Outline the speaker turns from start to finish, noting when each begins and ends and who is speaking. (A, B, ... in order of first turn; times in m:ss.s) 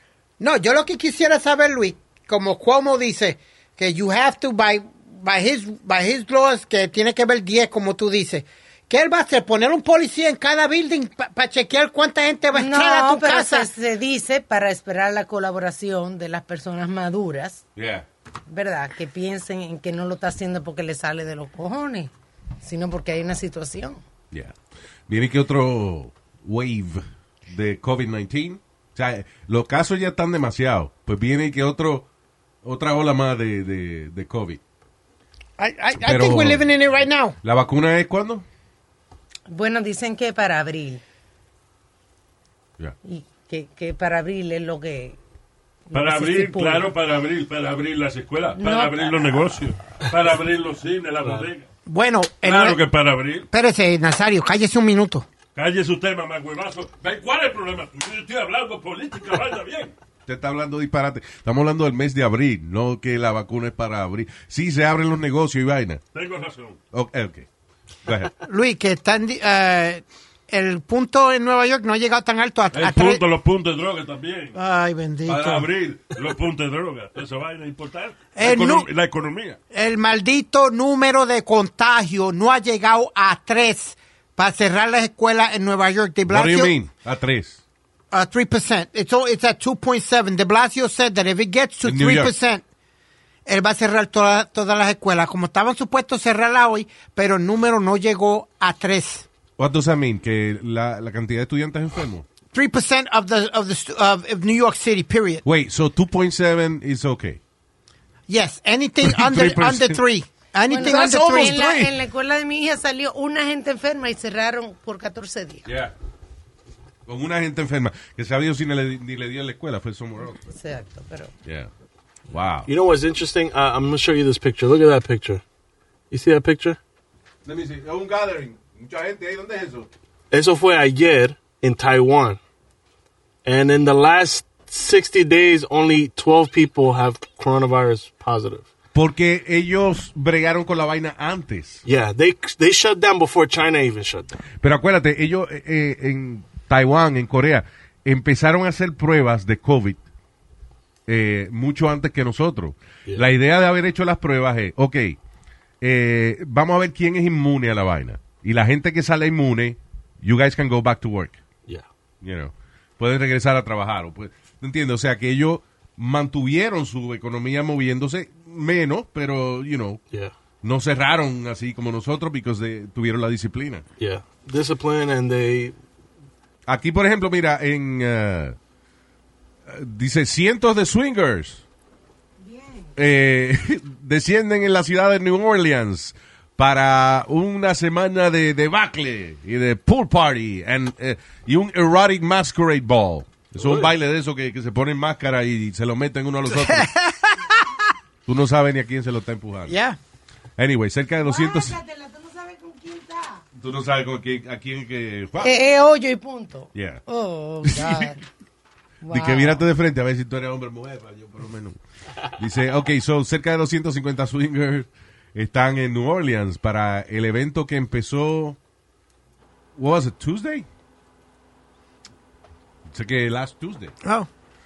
0:00.4-0:13.7 A
0:12.5-0:17.6 B
0:17.8-0:18.0 C
0:18.5-0:22.1 B
0:22.6-0:24.0 B
0:25.1-0:32.1 C
0:32.6-0:34.6 C
0:35.6-0:37.4 A
0:36.0-0:36.7 C
0:37.4-0:38.4 C
0:39.5-0:41.0 B
0:43.0-0:45.2 B
0:45.9-0:46.9 B
0:45.9-0:51.7 D
0:48.5-0:49.4 B
0:51.8-0:52.8 A
0:52.4-0:53.5 D
0:53.5-0:55.3 A
0:55.5-0:59.9 D
1:00.2-1:06.0 C
1:06.1-1:06.8 D
1:06.9-1:07.5 C
1:08.0-1:08.3 C
1:08.4-1:13.2 A
1:12.7-1:14.6 D
1:14.5-1:15.7 A
1:15.2-1:19.6 D
1:18.4-1:18.9 A
1:19.7-1:26.7 A
1:26.3-1:27.6 C
1:28.1-1:32.6 A
1:31.8-1:32.3 C
1:33.4-1:39.3 A
1:39.6-1:42.2 C
1:42.5-1:45.4 A
1:45.4-1:47.4 C
1:48.3-1:51.9 A
1:49.0-1:50.0 C
1:50.7-1:55.7 B
1:50.8-1:51.7 C
1:55.6-1:55.9 C
1:57.0-2:00.4 C
2:00.3-2:01.3 B
2:01.4-2:01.7 C
2:02.3-2:02.7 C
2:02.7-2:05.4 E
2:06.1-2:06.8 E
2:07.4-2:09.9 C
2:10.3-2:12.4 E
2:13.4-2:18.6 E
2:18.9-2:21.8 C
2:21.8-2:24.4 E
2:24.6-2:30.0 C
2:31.1-2:35.2 C
2:35.8-2:41.4 C
2:42.2-2:50.0 C
2:50.6-2:53.8 C
2:54.0-2:55.8 E
2:56.6-2:58.6 C
2:59.7-3:01.6 C
3:02.4-3:02.9 B
3:03.0-3:16.9 C
3:13.6-3:13.9 E
3:16.4-3:17.7 A
3:18.2-3:19.7 C
3:19.7-3:20.0 A
3:20.6-3:21.8 C
3:21.2-3:23.4 B
3:23.6-3:25.6 C
3:25.4-3:28.2 B
3:26.7-3:27.0 C
3:27.6-3:28.1 C
3:29.0-3:29.6 B
3:29.1-3:31.8 C
3:32.3-3:38.6 C
3:39.8-3:40.6 C
3:42.9-3:43.9 C
3:44.0-3:44.3 A